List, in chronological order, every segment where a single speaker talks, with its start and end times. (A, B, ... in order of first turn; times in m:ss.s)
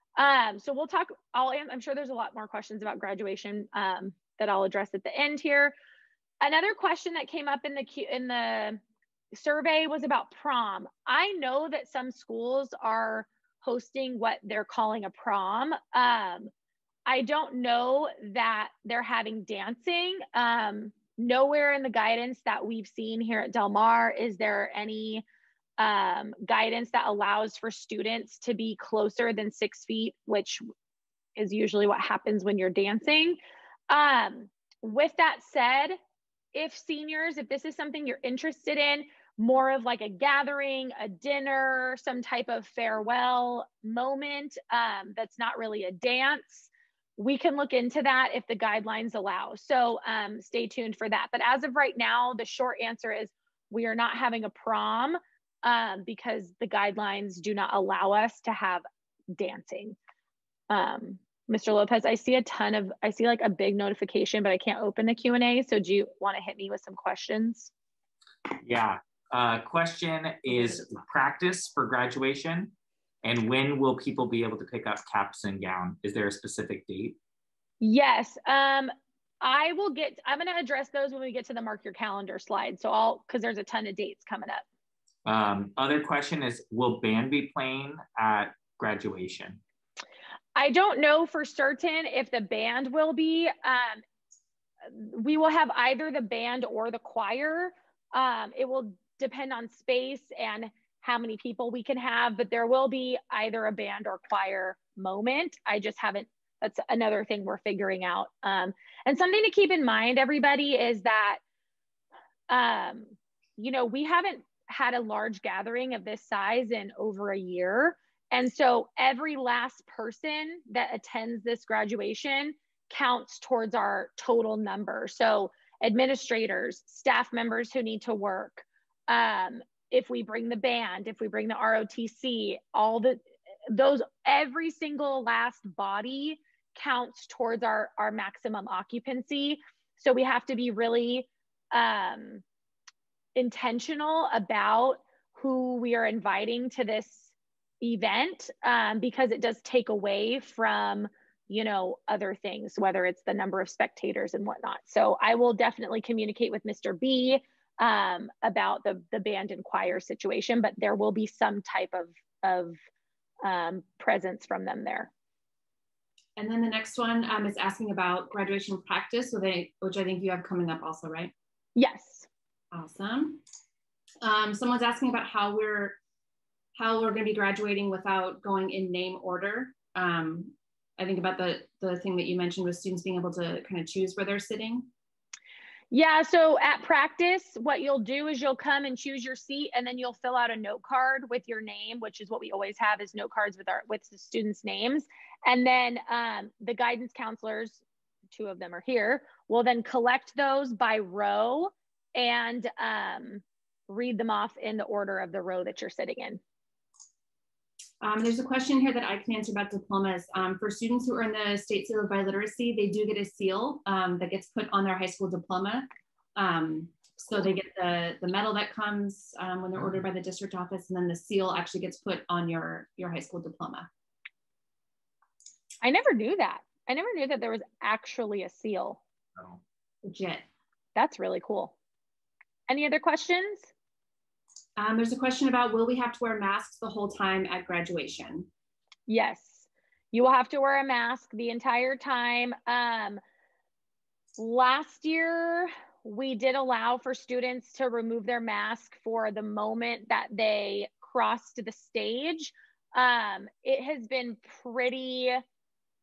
0:00.2-0:05.8 A
0:06.4-0:08.8 A
0:09.3-0:16.5 A
0:17.1-0:25.2 A
0:25.8-0:30.6 A
0:31.4-0:33.4 A
0:33.9-0:36.0 A
0:36.5-1:00.0 A
1:00.7-1:07.7 A
1:08.6-1:17.2 B
1:17.8-1:24.6 A
1:25.2-1:29.6 B
1:30.6-1:34.0 A
1:34.9-1:51.4 A
1:52.5-2:22.4 A
2:23.4-2:27.3 A
2:27.8-2:42.8 A
2:43.4-2:45.1 A
2:46.4-2:51.3 C
2:51.8-2:52.3 A
2:52.7-2:53.4 C
2:54.2-2:56.0 C
2:56.8-3:04.9 C
3:05.9-3:26.4 A
3:28.0-3:43.9 C
3:45.8-3:49.0 A
3:50.0-3:50.4 C
3:51.0-3:51.8 A
3:52.7-3:53.7 A
3:54.8-3:58.5 C
3:59.1-4:03.2 A
4:04.4-4:15.4 A